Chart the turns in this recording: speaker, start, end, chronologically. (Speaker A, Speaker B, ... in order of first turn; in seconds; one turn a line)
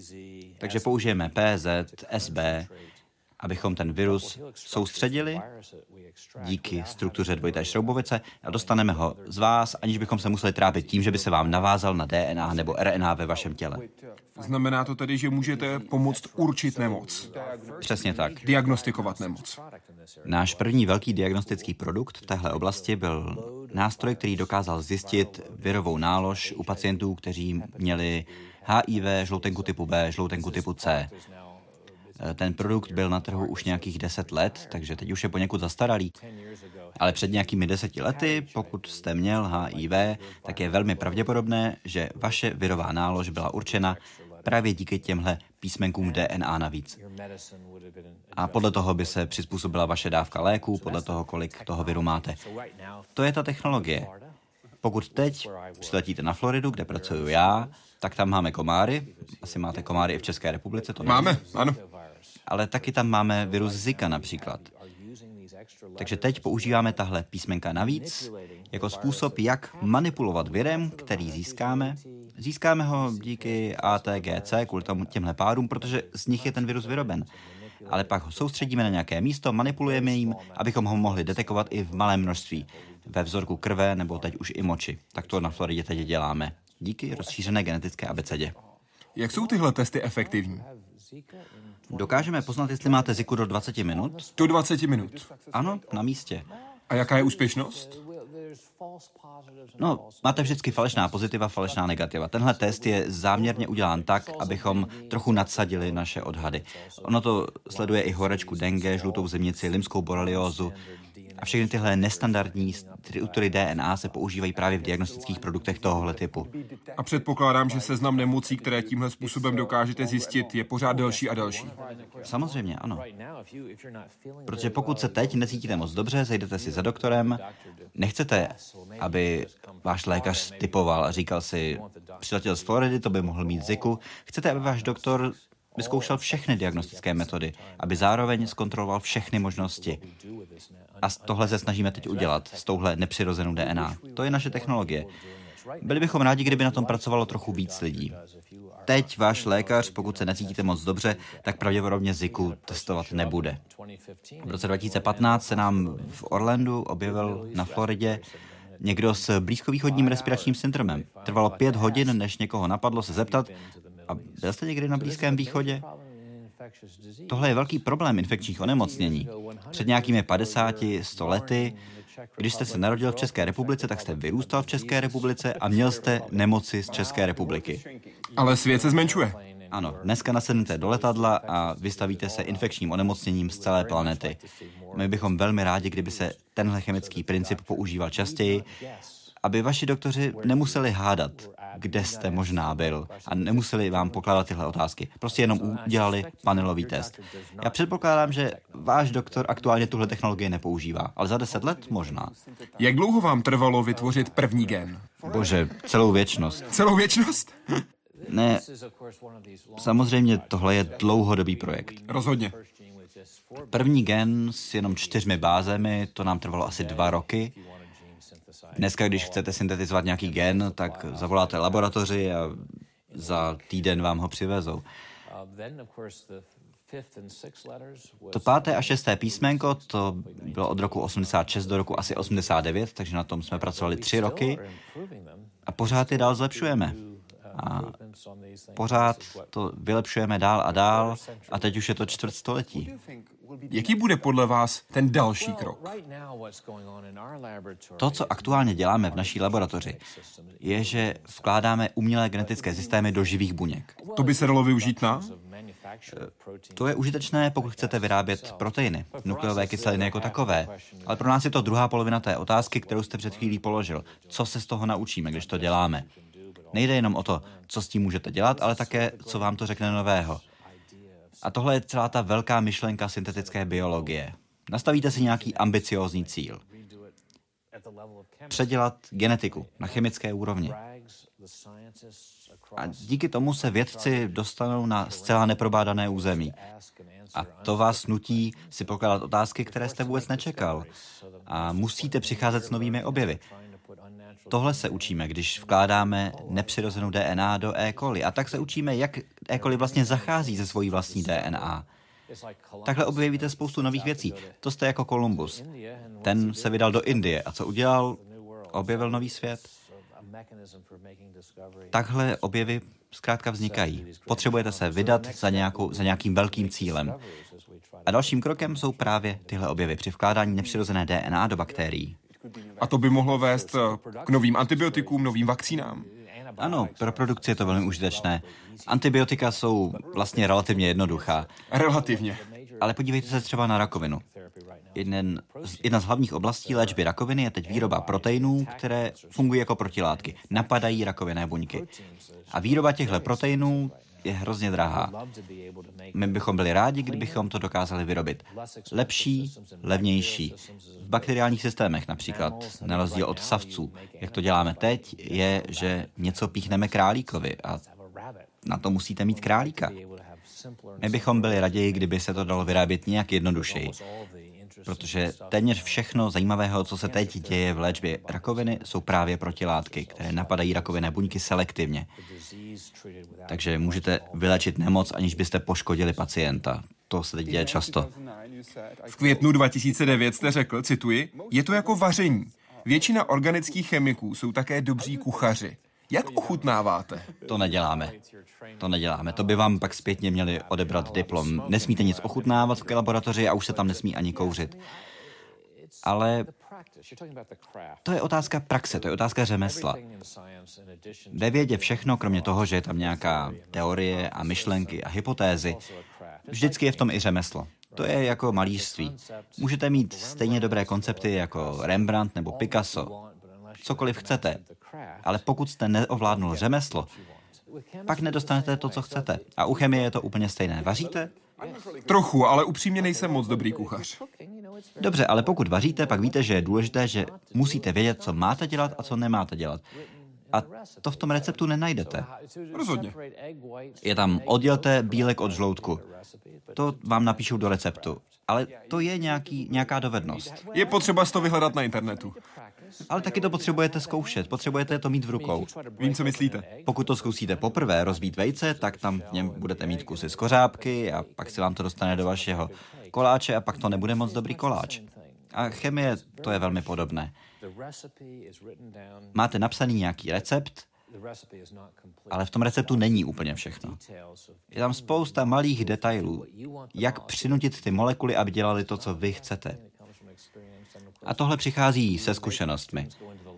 Speaker A: 0.6-2.7
Speaker A: 3.4-5.5
Speaker A: 6.4-13.8
Speaker B: 14.3-17.3
Speaker A: 17.8-18.4
Speaker B: 18.4-19.6
Speaker A: 20.2-31.1
Speaker A: 32.2-36.1
Speaker A: 37.0-47.0
Speaker A: 48.3-52.4
Speaker A: 53.1-54.1
Speaker A: 54.8-61.4
Speaker B: 61.0-61.8
Speaker A: 62.5-64.7
Speaker A: 66.0-77.3
Speaker A: 77.8-88.5
Speaker B: 89.2-90.7
Speaker A: 91.9-94.3
Speaker B: 94.4-95.3
Speaker A: 95.5-96.5
Speaker B: 96.9-98.0
Speaker A: 99.8-110.8
Speaker A: 111.4-116.5
Speaker B: 117.0-121.8
Speaker A: 122.2-123.0
Speaker A: 124.5-140.0
Speaker A: 141.0-145.1
Speaker A: 145.8-148.2
Speaker A: 148.8-153.6
Speaker A: 154.4-158.2
Speaker A: 158.8-163.5
Speaker A: 164.1-165.8
Speaker A: 167.3-171.8
Speaker A: 172.4-177.8
Speaker B: 178.3-179.4
Speaker A: 179.7-184.4
Speaker A: 184.9-188.7
Speaker A: 189.4-202.3
Speaker B: 202.8-205.2
Speaker A: 205.2-206.7
Speaker B: 206.6-207.8
Speaker A: 208.2-208.7
Speaker A: 209.8-212.0
Speaker B: 212.1-212.6
Speaker A: 213.6-217.6
Speaker A: 218.7-224.8
Speaker A: 228.3-234.7
Speaker A: 235.7-237.0
Speaker A: 237.5-237.9
Speaker A: 238.8-242.9
Speaker B: 243.7-246.0
Speaker A: 248.0-250.0
Speaker A: 250.6-254.0
Speaker B: 254.1-255.3
Speaker A: 256.1-266.1
Speaker A: 266.7-270.4
Speaker A: 271.4-276.6
Speaker A: 278.5-280.8
Speaker A: 282.7-286.6
Speaker A: 287.3-290.9
Speaker A: 291.4-293.4
Speaker A: 294.5-301.9
Speaker A: 302.8-305.6
Speaker A: 306.2-309.7
Speaker A: 311.9-317.2
Speaker A: 318.1-322.1
Speaker B: 322.8-326.1
Speaker A: 326.6-331.5
Speaker B: 331.7-332.5
Speaker A: 332.8-334.2
Speaker A: 334.9-341.9
Speaker A: 342.5-345.2
Speaker A: 346.1-357.8
Speaker A: 358.6-359.9
Speaker A: 361.0-364.0
Speaker A: 364.8-372.1
Speaker A: 373.5-378.1
Speaker B: 379.1-387.3
Speaker A: 387.4-388.1
Speaker A: 388.8-394.8
Speaker A: 396.0-396.5
Speaker A: 398.0-400.0
Speaker A: 401.3-405.8
Speaker A: 406.5-413.1
Speaker A: 413.8-414.6
Speaker A: 415.2-417.1
Speaker A: 418.1-421.3
Speaker B: 422.0-424.2
Speaker A: 425.0-429.8
Speaker A: 430.5-432.3
Speaker B: 432.7-433.1
Speaker A: 434.0-436.0
Speaker A: 436.7-440.6
Speaker B: 440.7-442.4
Speaker A: 443.1-445.7
Speaker B: 446.0-446.7
Speaker A: 446.8-457.3
Speaker A: 459.3-460.9
Speaker A: 462.3-464.0
Speaker A: 464.7-469.8
Speaker A: 471.2-473.1